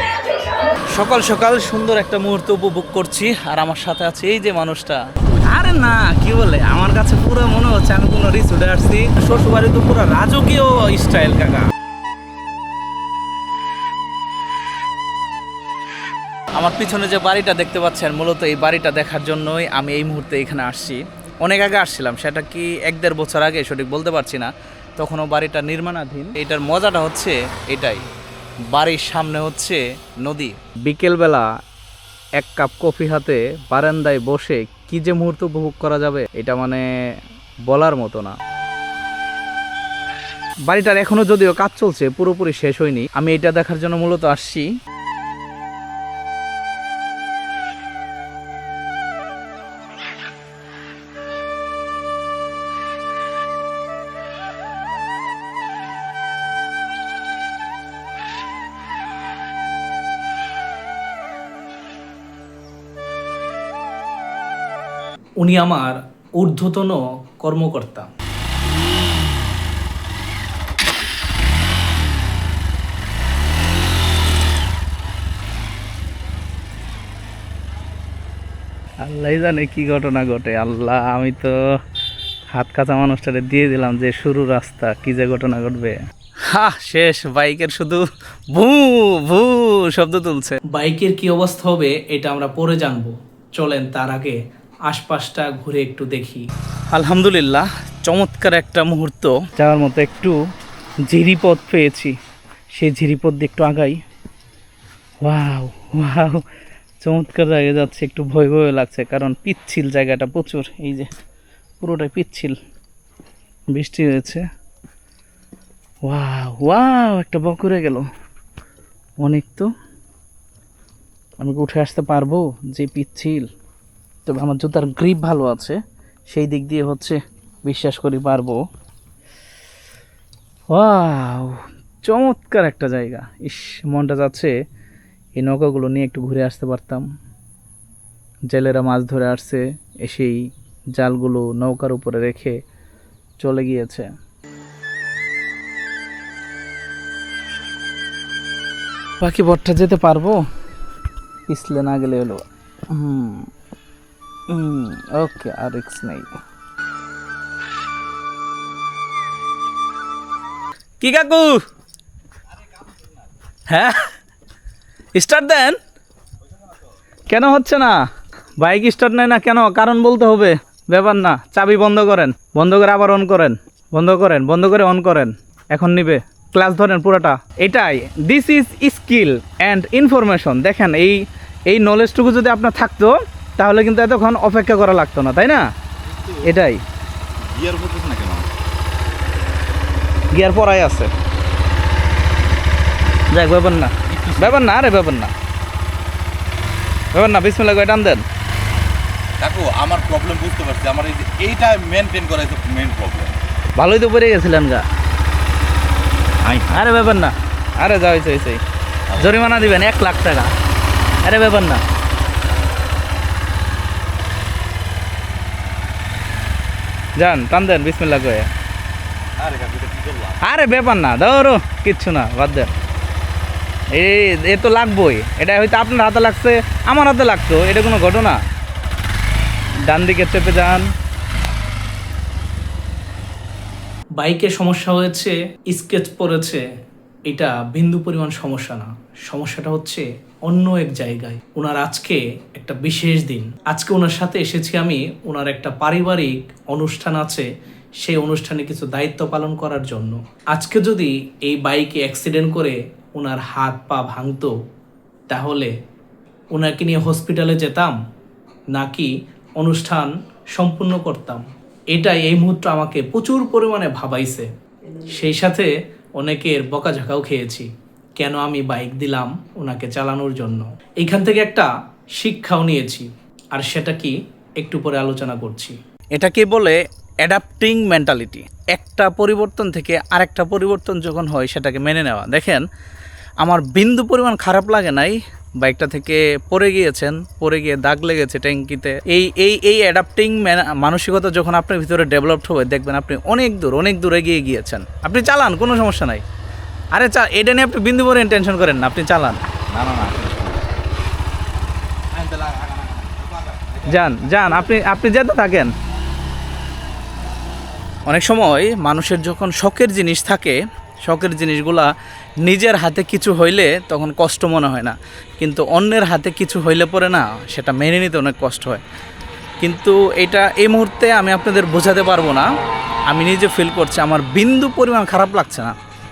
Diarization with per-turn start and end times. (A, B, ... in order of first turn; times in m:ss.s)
0:00.9-0:11.7 A
0:16.6-0:28.0 A
0:28.7-0:31.5 A
0:32.4-0:36.9 A
0:37.7-0:38.4 A
0:40.7-0:44.7 A
1:05.4-1:08.1 A
1:19.0-1:21.6 A
1:22.5-1:40.4 A
1:41.1-1:42.2 A
1:42.7-1:44.0 A
1:45.2-1:46.4 A
1:47.0-1:51.1 A
1:51.8-1:52.6 A
1:53.7-1:54.5 A
1:56.0-1:58.1 A
1:59.2-1:59.7 A
2:01.4-2:03.5 A
2:04.2-2:08.6 A
2:10.7-2:14.5 A
2:15.4-2:17.1 A
2:18.5-2:22.6 A
2:23.4-2:24.1 A
2:29.2-2:30.4 A
2:31.5-2:33.5 A
2:34.5-2:36.4 A
2:41.0-2:41.6 A
2:43.7-2:44.1 A
2:45.1-2:45.8 A
2:47.3-2:48.0 A
2:48.6-3:05.7 A
3:06.1-3:06.4 B
3:06.4-3:06.8 A
3:07.4-3:08.5 B
3:10.3-3:11.1 A
3:13.3-3:15.3 A
3:14.0-3:14.6 B
3:17.1-3:18.2 A
3:19.4-3:23.4 B
3:23.8-3:24.8 A
3:26.6-3:28.6 A
3:29.2-3:30.5 A
3:31.2-3:31.8 A
3:37.2-3:38.5 A
3:39.4-3:40.4 B
3:40.4-3:42.7 A
3:43.9-3:48.4 A
3:49.9-3:50.9 A
3:54.2-3:56.6 A
3:57.3-4:07.5 A
4:08.0-4:14.5 A
4:15.3-4:15.7 A
4:16.5-4:18.0 A
4:18.7-4:42.6 A
4:43.4-4:56.2 A
4:56.9-4:59.4 A
4:59.7-5:00.7 B
5:02.1-5:04.5 B
5:03.8-5:05.7 A
5:08.1-5:11.9 A
5:12.4-5:18.8 A
5:19.6-5:22.5 A
5:23.1-5:25.8 A